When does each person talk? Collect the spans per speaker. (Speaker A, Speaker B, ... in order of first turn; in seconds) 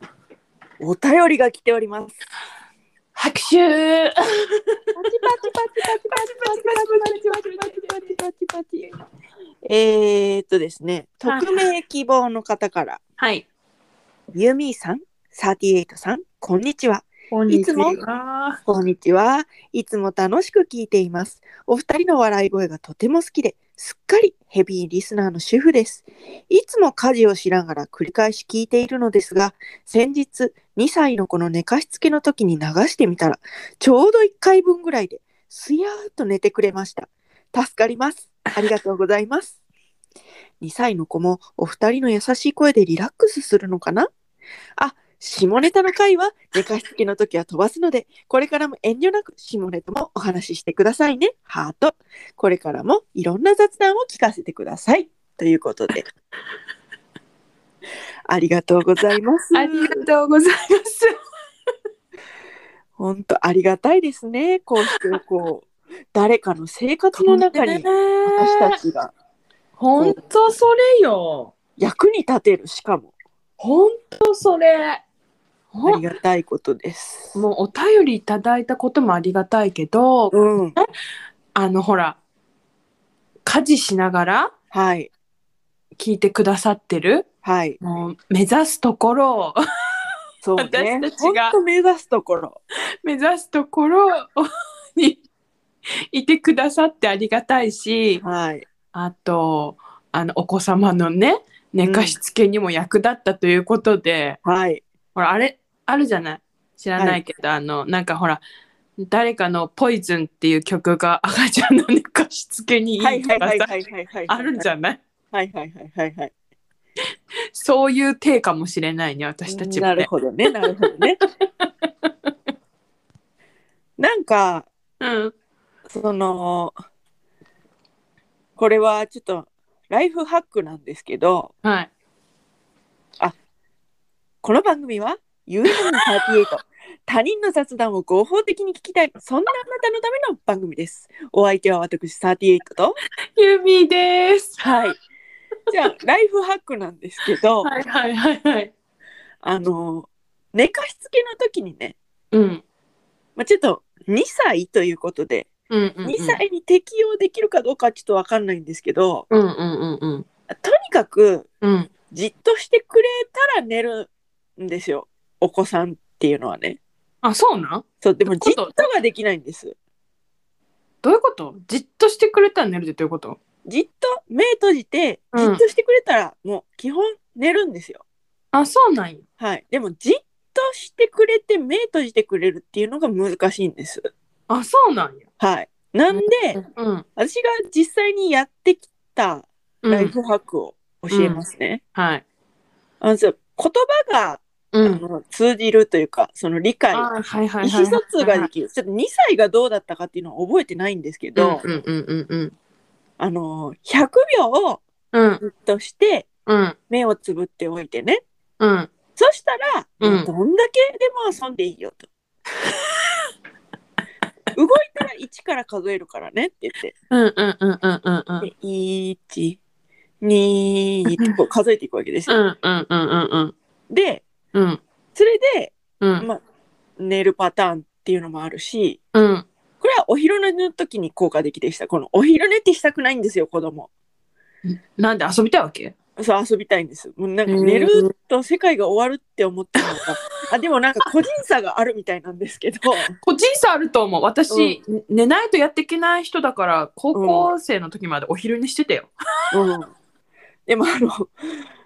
Speaker A: 0.8-2.1, 4.9-8.9, 9.6-13.0, 14.3-18.0, 18.6-39.5, 40.6-44.1, 44.8-56.1, 58.3-60.0, 63.0-69.1, 71.8-73.1, 75.8-77.3, 80.3-80.8, 84.7-85.1, 87.4-87.8, 90.4-92.6, 98.2-98.7, 101.8-102.2, 104.4-104.8, 113.0-114.7, 115.3-116.3, 119.5-121.2, 124.0-124.7, 125.9-126.7, 128.6-131.5, 134.4-143.0, 144.6-145.0, 145.7-147.7, 149.4-152.0, 153.4-155.5, 156.0-159.3, 160.5-161.5, 162.1-166.8, 168.0-169.7, 173.7-178.0, 179.4-184.1, 185.4-186.6, 187.2-191.8, 193.0-201.6, 203.2-204.8, 205.4-206.3, 206.9-208.2, 209.2-212.0, 214.5-216.9, 218.4-219.6, 220.2-222.3, 223.9-224.2, 225.1-226.4, 227.0-229.0, 229.8-233.9, 236.2-243.2, 244.5-244.8, 247.1-247.5, 249.5-249.9, 250.7-251.3
Speaker B: 3.1-4.8, 6.1-8.1, 11.2-11.6, 13.2-13.5, 17.3-18.6, 59.5-61.1, 67.2-68.8, 69.8-71.5, 73.6-75.0, 75.7-76.0, 77.3-80.8, 81.5-82.2, 83.4-84.5, 86.0-87.3, 87.8-89.6, 90.6-91.5, 93.0-95.2, 96.1-98.2, 98.9-104.4, 105.1-108.4, 109.0-113.7, 114.3-115.0, 117.5-120.1, 120.6-122.3, 125.0-125.3, 131.6-131.9, 135.7-136.1, 143.3-144.6, 147.6-148.7, 152.3-152.6, 155.7-156.4, 159.3-160.2, 161.6-161.9, 167.2-168.9, 171.0-173.4, 175.3-175.6, 178.5-179.2, 184.5-185.2, 186.1-187.1, 189.8-190.1, 191.1-192.2, 194.7-195.0, 196.9-198.5, 201.3-202.5, 205.1-205.4, 206.5-206.8, 208.6-208.9, 210.0-210.3, 212.7-213.3, 217.1-218.5, 222.3-223.5, 224.5-224.8, 226.0-226.2, 229.1-229.4, 234.6-235.9, 237.5-238.1, 243.2-249.1